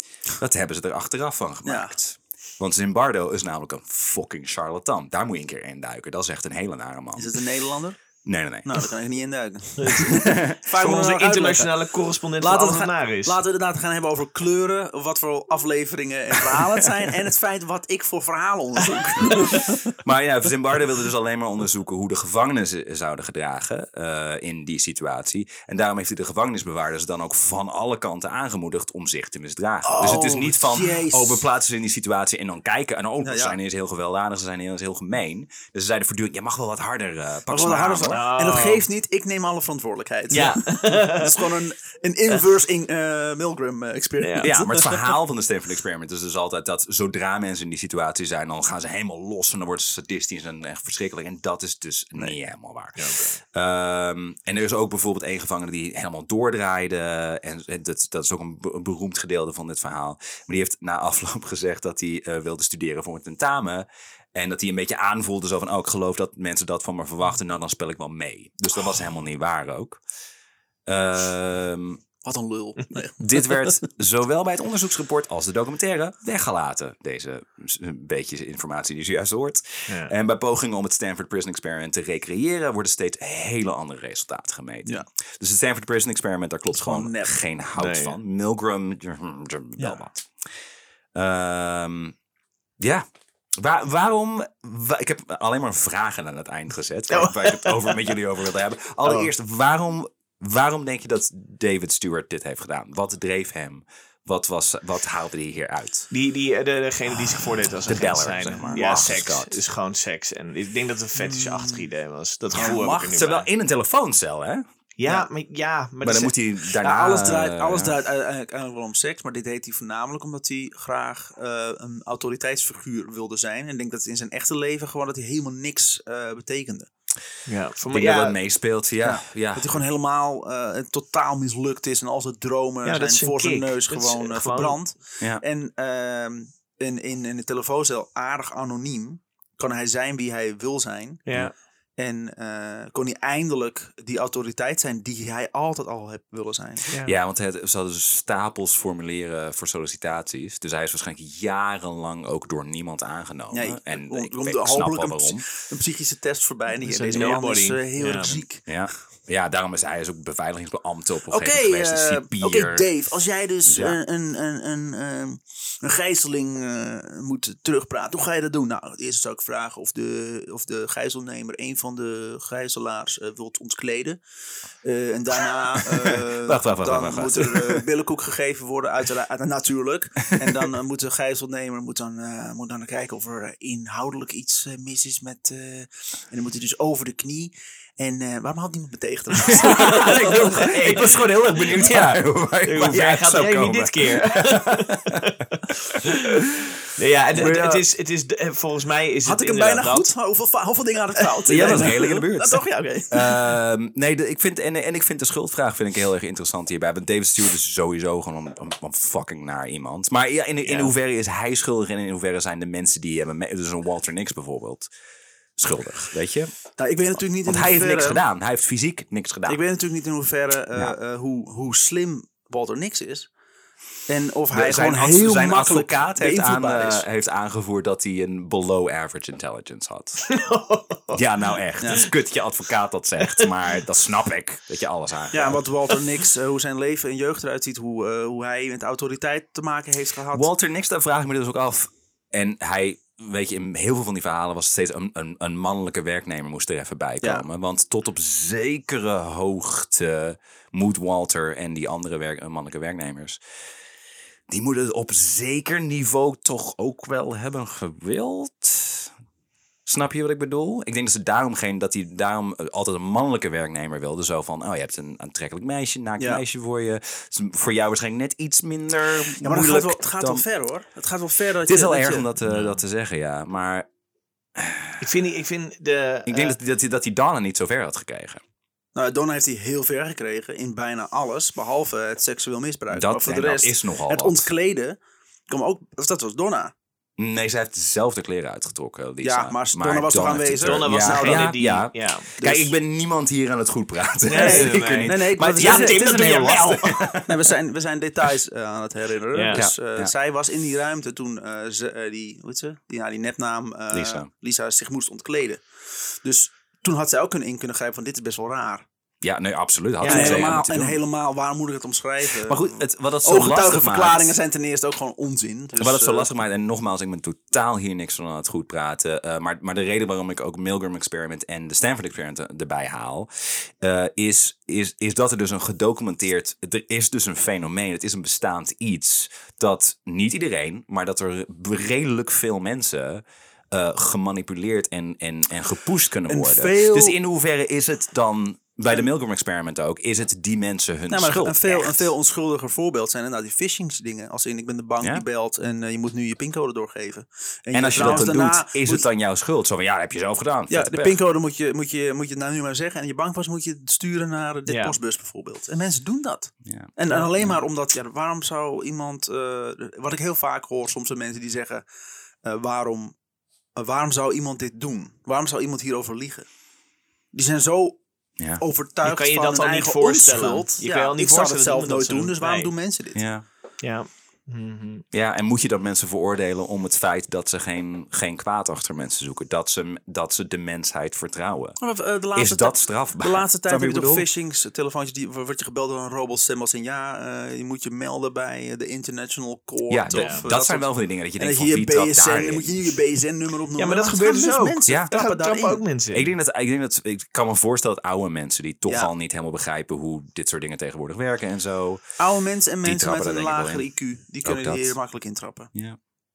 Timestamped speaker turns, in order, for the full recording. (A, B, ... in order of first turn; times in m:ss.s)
0:00.4-0:07.4 A
0:01.6-0:01.9 B
0:07.1-0:08.0 B
0:08.2-0:08.8 A
0:08.6-0:11.8 B
0:09.8-0:10.1 C
0:10.0-0:10.6 A
0:10.7-0:13.4 C
0:12.4-0:19.9 B
0:16.5-0:17.0 A
0:19.3-0:38.2 A
0:29.8-0:31.4 B
0:33.2-0:33.5 B
0:37.5-0:44.9 B
0:38.1-0:38.8 C
0:40.3-0:41.6 C
0:44.2-0:44.6 C
0:44.4-1:10.0 A
0:53.0-0:53.4 C
1:10.8-1:12.0 A
1:12.2-1:13.5 B
1:13.2-1:30.3 A
1:19.9-1:20.1 C
1:26.7-1:27.4 B
1:27.8-1:28.2 C
1:29.8-1:30.0 B
1:31.1-1:32.2 A
1:32.8-1:33.0 A
1:33.6-1:46.1 A
1:37.1-1:38.1 C
1:39.0-1:39.3 C
1:46.1-1:53.5 C
1:47.8-1:49.6 A
1:51.2-1:51.9 B
1:52.5-1:54.6 A
1:52.6-1:53.2 B
1:55.0-1:56.3 C
1:56.0-1:58.0 A
1:56.8-2:06.9 B
2:07.4-2:08.4 C
2:07.9-2:09.8 A
2:09.0-2:21.2 B
2:12.8-2:14.8 C
2:21.2-2:21.5 C
2:22.0-2:26.8 B
2:27.0-2:35.5 A
2:33.5-2:38.6 B
2:36.8-2:38.3 C
2:38.2-2:42.9 A
2:41.3-2:54.2 B
2:43.6-2:44.0 A
2:54.8-3:10.7 B
2:55.8-2:57.8 A
3:09.4-3:15.3 A
3:09.5-3:20.1 C
3:17.3-3:17.8 A
3:19.2-3:23.4 B
3:21.5-3:34.9 A
3:30.6-3:30.9 C
3:35.6-3:36.5 A
3:36.8-3:38.2 B
3:37.3-3:39.6 A
3:39.5-3:43.3 B
3:44.1-3:47.0 B
3:44.5-3:50.3 A
3:50.2-3:51.2 C
3:51.1-3:55.6 A
3:51.8-3:52.0 B
3:55.3-4:00.5 B
4:00.3-4:13.4 A
4:14.5-4:19.1 A
4:19.8-4:30.4 A
4:26.2-4:26.4 B
4:29.4-4:32.3 B
4:31.6-4:33.9 A
4:32.4-4:32.8 C
4:34.5-4:35.0 A
4:35.0-4:36.6 C
4:36.3-4:38.4 A
4:38.9-4:46.7 B
4:42.9-4:44.5 A
4:47.2-4:57.4 A
4:49.2-4:51.5 B
4:50.6-4:52.3 C
4:52.4-4:52.7 B
4:54.2-4:57.1 C
4:54.3-5:05.6 B
4:59.3-4:59.6 C
4:59.5-5:00.1 A
5:03.9-5:04.3 A
5:06.2-5:08.8 B
5:09.2-5:11.0 A
5:10.0-5:10.6 C
5:10.0-5:16.3 B
5:12.4-5:14.3 A
5:15.8-5:42.1 A
5:36.3-5:37.2 B
5:41.1-5:49.0 B
5:47.7-5:51.2 A
5:50.7-6:01.8 B
5:54.7-5:55.0 C
5:56.6-5:56.9 A
5:57.1-5:57.5 C
6:02.4-6:03.1 B
6:03.8-6:06.5 B
6:07.3-6:08.0 B
6:08.6-6:13.2 B
6:09.0-6:12.7 C
6:13.1-6:13.4 A
6:13.8-6:15.0 C
6:15.1-6:21.8 A
6:21.8-6:35.8 B
6:22.3-6:24.3 A
6:29.9-6:32.9 A
6:30.1-6:30.5 C
6:33.8-6:36.3 C
6:36.1-6:42.0 A
6:42.2-6:45.7 B
6:42.8-6:43.9 A
6:44.4-6:44.9 A